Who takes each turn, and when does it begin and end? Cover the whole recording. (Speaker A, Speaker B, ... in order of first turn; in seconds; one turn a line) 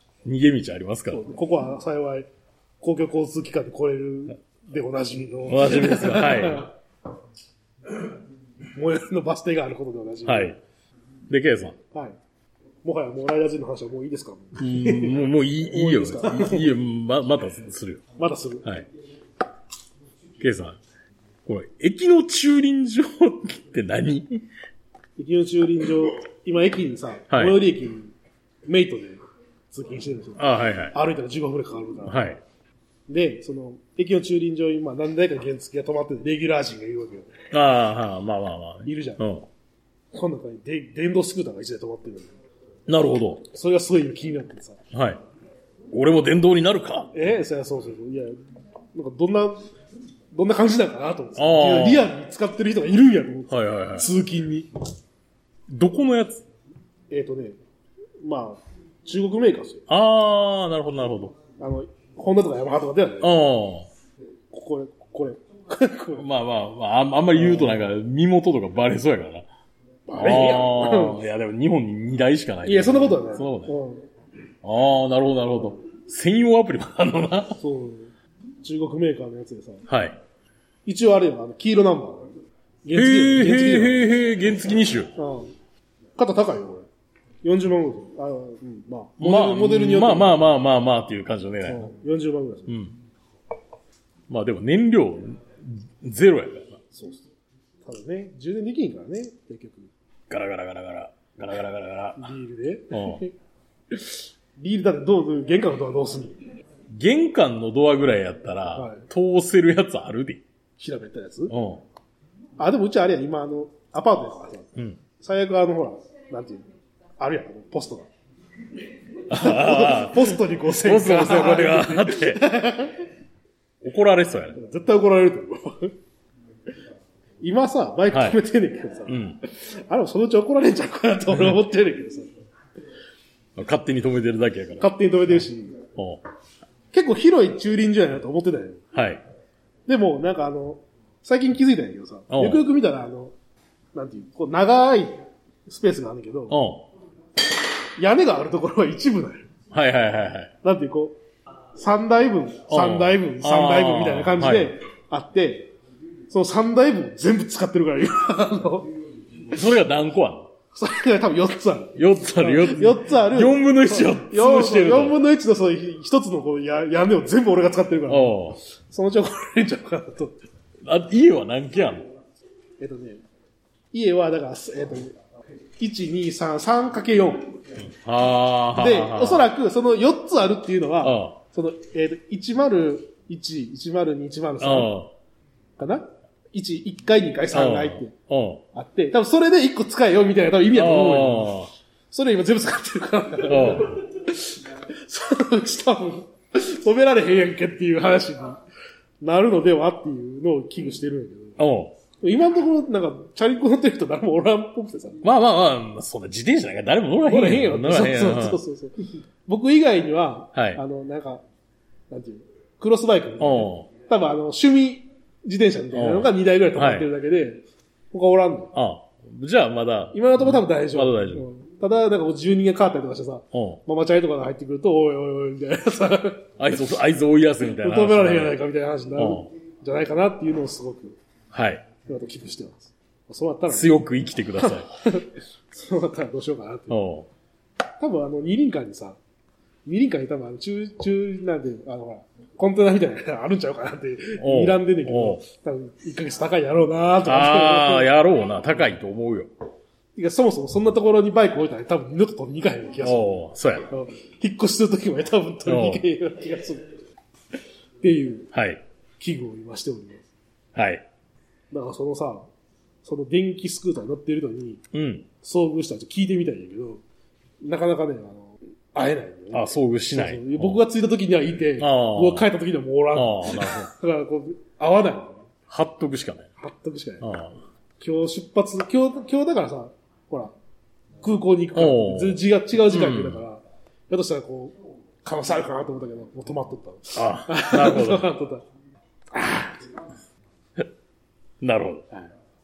Speaker A: 0.2-1.2
Speaker B: 1.1-2.3
Speaker B: 2.8-6.7
Speaker A: 5.5-6.7
Speaker B: 8.7-10.6
Speaker A: 10.2-10.6
Speaker A: 11.3-11.8
Speaker B: 11.9-12.2
Speaker B: 12.8-16.7
Speaker A: 14.6-18.0
Speaker B: 18.2-18.6
Speaker A: 20.4-20.8
Speaker A: 21.4-24.4
Speaker B: 25.2-28.1
Speaker A: 27.3-27.6
Speaker B: 28.6-32.2
Speaker A: 30.4-30.9
Speaker A: 32.0-32.4
Speaker B: 33.1-37.3
Speaker A: 37.5-39.5
Speaker B: 38.8-39.2
Speaker B: 40.1-42.3
Speaker A: 42.9-43.5
Speaker B: 43.5-44.8
Speaker A: 44.9-45.2
Speaker A: 45.9-47.1
Speaker B: 47.1-48.4
Speaker B: 48.9-49.7
Speaker B: 50.3-54.7
Speaker A: 51.4-52.1
Speaker A: 53.5-54.1
Speaker A: 55.7-56.4
Speaker B: 57.1-57.6
Speaker B: 58.2-59.9
Speaker A: 59.9-61.4
Speaker B: 61.6-63.4
Speaker A: 63.2-63.9
Speaker B: 64.5-66.3
Speaker A: 66.2-69.5
Speaker B: 67.3-67.8
Speaker B: 70.1-71.2
Speaker A: 70.2-73.7
Speaker B: 72.6-74.0
Speaker A: 74.6-77.6
Speaker B: 77.6-79.8
Speaker A: 79.9-80.2
Speaker B: 80.8-84.0
Speaker A: 82.9-85.1
Speaker B: 85.2-85.5
Speaker B: 86.2-86.9
Speaker B: 87.4-90.4
Speaker A: 89.2-91.9
Speaker B: 91.7-92.8
Speaker A: 92.7-92.9
Speaker A: 94.3-96.8
Speaker B: 96.9-97.2
Speaker B: 97.8-99.9
Speaker A: 100.3-102.3
Speaker B: 102.2-103.3
Speaker A: 102.9-103.2
Speaker B: 103.9-106.4
Speaker A: 106.9-110.4
Speaker B: 108.7-109.1
Speaker B: 110.8-111.5
Speaker A: 111.5-111.8
Speaker B: 112.6-116.7
Speaker B: 117.2-118.1
Speaker A: 119.3-122.4
Speaker B: 119.3-123.0
Speaker A: 123.8-124.6
Speaker B: 124.5-125.9
Speaker B: 127.4-132.3
Speaker A: 128.1-128.4
Speaker A: 129.1-129.4
Speaker A: 131.3-131.6
Speaker A: 133.6-134.9
Speaker B: 134.8-135.8
Speaker A: 135.9-136.2
Speaker B: 136.9-138.8
Speaker A: 138.9-139.2
Speaker B: 139.9-143.3
Speaker A: 142.3-142.6
Speaker B: 143.9-146.6
Speaker A: 146.5-146.8
Speaker B: 148.0-149.5
Speaker A: 149.7-150.5
Speaker B: 150.6-151.2
Speaker B: 151.7-155.7
Speaker A: 152.7-154.7
Speaker B: 156.3-158.9
Speaker A: 159.5-160.5
Speaker B: 160.7-170.4
Speaker A: 161.9-165.2
Speaker A: 168.1-168.6
Speaker A: 170.8-172.1
Speaker B: 172.8-173.2
Speaker B: 173.9-175.2
Speaker B: 175.8-177.5
Speaker A: 177.8-179.5
Speaker B: 178.7-184.9
Speaker A: 181.0-181.4
Speaker A: 184.6-185.1
Speaker B: 185.8-188.1
Speaker A: 187.5-188.6
Speaker B: 188.7-191.5
Speaker A: 190.7-191.7
Speaker B: 192.1-198.6
Speaker A: 193.4-194.0
Speaker B: 199.2-201.6
Speaker A: 201.6-202.0
Speaker B: 202.2-205.2
Speaker A: 205.2-208.6
Speaker B: 207.2-211.4
Speaker A: 210.5-210.8
Speaker B: 212.1-218.7
Speaker A: 213.4-213.9
Speaker A: 215.9-217.1
Speaker A: 218.7-221.4
Speaker B: 220.1-226.5
Speaker A: 223.5-223.8
Speaker A: 226.6-228.6
Speaker B: 227.8-231.2
Speaker A: 229.2-229.5
Speaker A: 231.5-231.8
Speaker B: 232.1-234.0
Speaker A: 233.7-234.9
Speaker B: 234.6-237.0
Speaker A: 236.9-237.3
Speaker B: 238.0-239.2
Speaker B: 239.8-248.1
Speaker A: 244.4-245.4
Speaker A: 247.2-249.5
Speaker B: 250.1-257.0
Speaker A: 253.0-253.9
Speaker A: 255.6-256.0
Speaker B: 258.0-258.5
Speaker A: 258.5-258.8
Speaker B: 259.2-260.2
Speaker A: 260.7-261.1
Speaker B: 261.7-262.5
Speaker B: 263.0-264.8
Speaker A: 264.9-265.3
Speaker B: 265.4-267.0
Speaker B: 267.6-275.4
Speaker A: 269.5-270.8
Speaker A: 271.8-272.5
Speaker A: 273.1-273.9
Speaker A: 275.7-276.5
Speaker B: 276.6-277.2
Speaker A: 277.2-277.6
Speaker B: 278.0-280.5
Speaker B: 281.2-288.6
Speaker A: 281.7-283.4
Speaker A: 287.1-288.3
Speaker B: 289.3-289.9
Speaker A: 291.6-292.1